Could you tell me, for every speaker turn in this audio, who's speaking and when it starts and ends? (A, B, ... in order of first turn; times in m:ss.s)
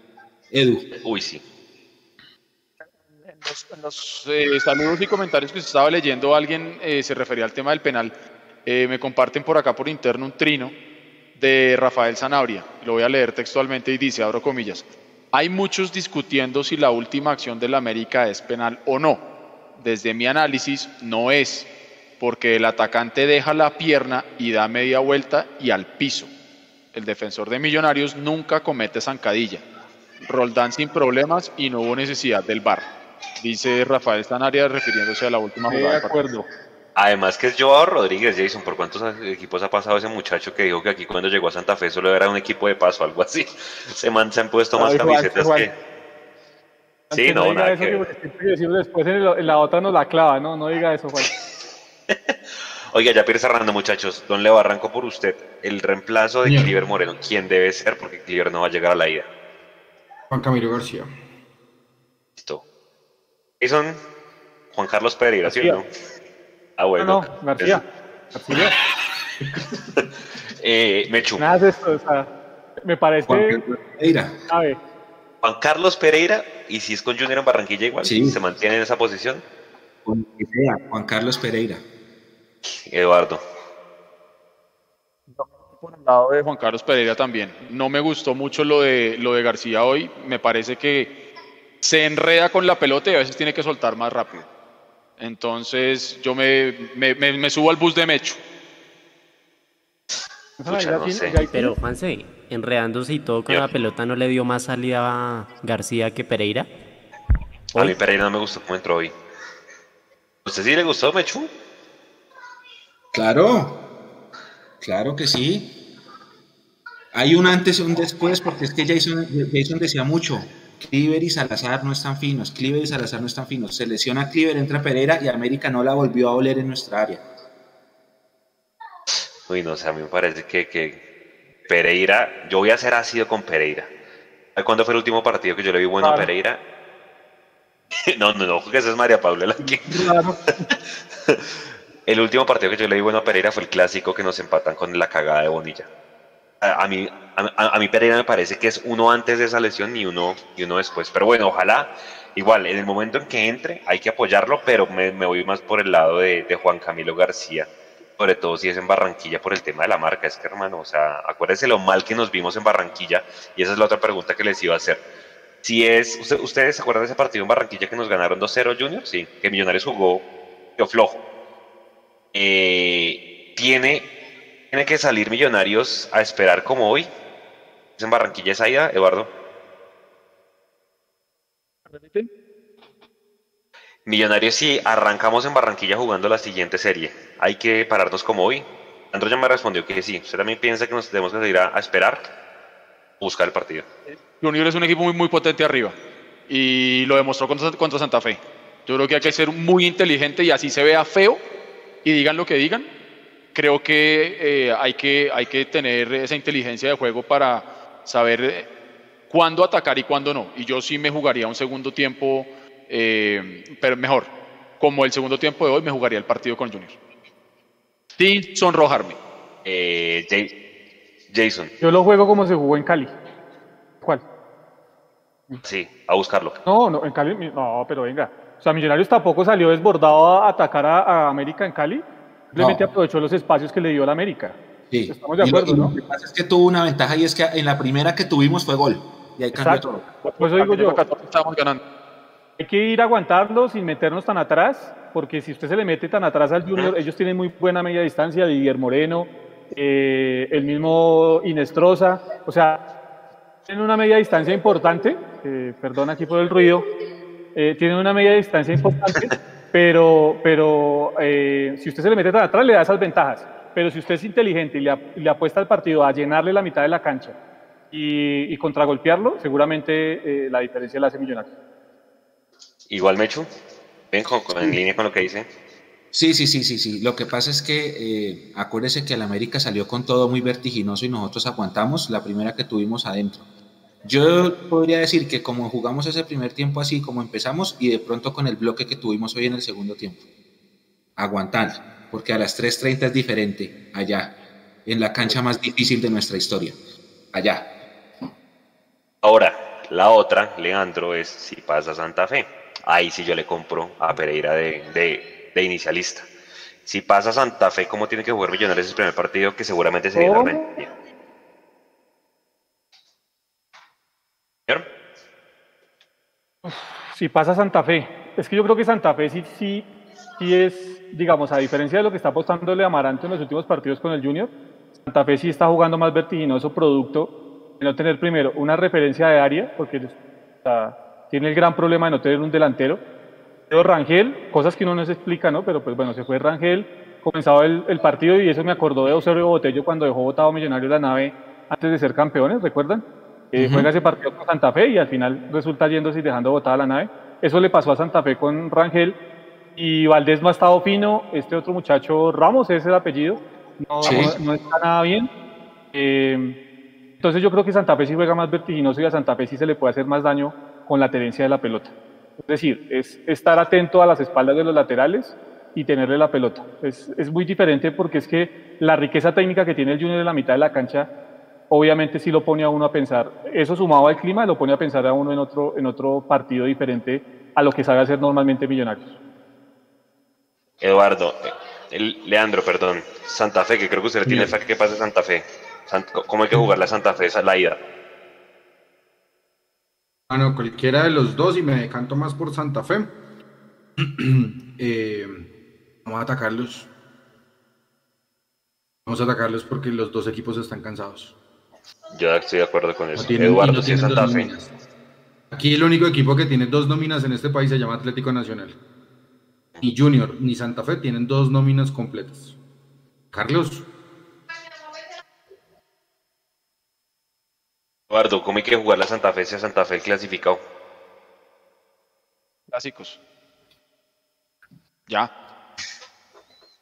0:00.5-0:00.8 A
0:01.0-0:01.4 B
0:03.2-0:08.1 C
0:08.7-0:10.8 C
0:11.4-0:19.2 C
0:19.8-0:21.7 C
0:22.2-0:26.3 C
0:26.9-0:29.6 C
0:30.2-0:32.8 C
0:33.4-0:36.2 C
0:35.7-0:36.5 D
0:37.0-0:45.7 B
0:44.8-0:45.7 D
0:47.1-0:51.3 D
0:47.1-0:48.1 B
0:52.9-0:59.3 B
0:56.4-0:56.7 E
1:00.3-1:01.1 E
1:02.4-1:02.6 B
1:03.6-1:04.0 B
1:04.7-1:05.9 B
1:05.4-1:05.8 D
1:06.8-1:07.8 B
1:07.0-1:07.8 D
1:08.3-1:08.8 D
1:10.6-1:11.4 B
1:11.4-1:13.6 D
1:13.3-1:14.4 A
1:14.5-1:14.8 D
1:15.4-1:19.4 B
1:18.0-1:18.4 A
1:20.0-1:21.8 A
1:22.9-1:23.4 B
1:25.3-1:31.1 C
1:31.8-1:34.4 C
1:35.2-1:38.4 C
1:40.6-1:41.8 D
1:40.6-1:41.4 B
1:41.5-1:46.7 F
1:47.7-1:49.1 B
1:50.4-1:51.5 B
1:53.1-1:53.8 A
1:54.8-1:55.8 A
1:57.1-2:07.2 A
2:09.5-2:11.0 B
2:11.7-2:13.9 B
2:14.6-2:16.6 B
2:16.0-2:16.3 D
2:18.1-2:20.2 B
2:22.1-2:25.9 B
2:26.6-2:45.0 B
2:45.6-2:50.2 B
2:50.8-2:51.2 B
2:52.3-2:54.1 B
2:54.7-2:57.1 B
2:58.0-2:59.3 B
3:04.0-3:12.2 B
3:13.2-3:13.8 B
3:14.3-3:16.0 C
3:16.5-3:21.4 C
3:22.0-3:22.9 C
3:23.5-3:28.7 C
3:29.3-3:37.0 C
3:38.2-3:39.2 C
3:39.6-3:40.5 B
3:41.3-3:41.7 B
3:41.8-3:43.2 D
3:45.6-3:46.6 B
3:46.6-3:54.6 D
3:52.6-3:52.9 A
3:54.9-4:00.1 A
3:55.1-3:55.9 D
3:59.5-3:59.8 D
4:00.2-4:01.8 C
4:00.4-4:01.0 D
4:02.6-4:12.8 D
4:13.7-4:16.9 D
4:17.6-4:27.4 D
4:27.9-4:31.5 D
4:32.9-4:33.5 B
4:34.1-4:35.5 B
4:36.1-4:43.5 A
4:44.0-4:50.2 A
4:51.2-4:54.4 A
4:54.9-4:56.8 A
4:57.3-4:57.7 A
4:59.2-5:06.3 B
5:06.8-5:10.9 B
5:10.1-5:10.7 D
5:16.6-5:19.9 D
5:20.4-5:24.5 D
5:25.0-5:33.0 D
5:33.7-5:49.2 D
5:43.6-5:43.9 A
5:49.8-5:55.3 D
5:54.0-5:54.3 A
5:54.0-5:54.3 B
5:55.9-5:56.6 D
5:57.2-6:01.9 D
6:02.4-6:11.1 D
6:11.7-6:19.1 D
6:20.8-6:27.8 B
6:30.3-6:33.2 E
6:34.0-6:35.5 E
6:36.0-6:36.9 E
6:39.1-6:41.4 E
6:42.2-6:44.5 B
6:43.2-6:44.7 E
6:45.5-6:48.8 E
6:49.8-6:52.5 E
6:53.3-6:53.9 E
6:58.1-7:00.6 B
7:02.7-7:03.2 C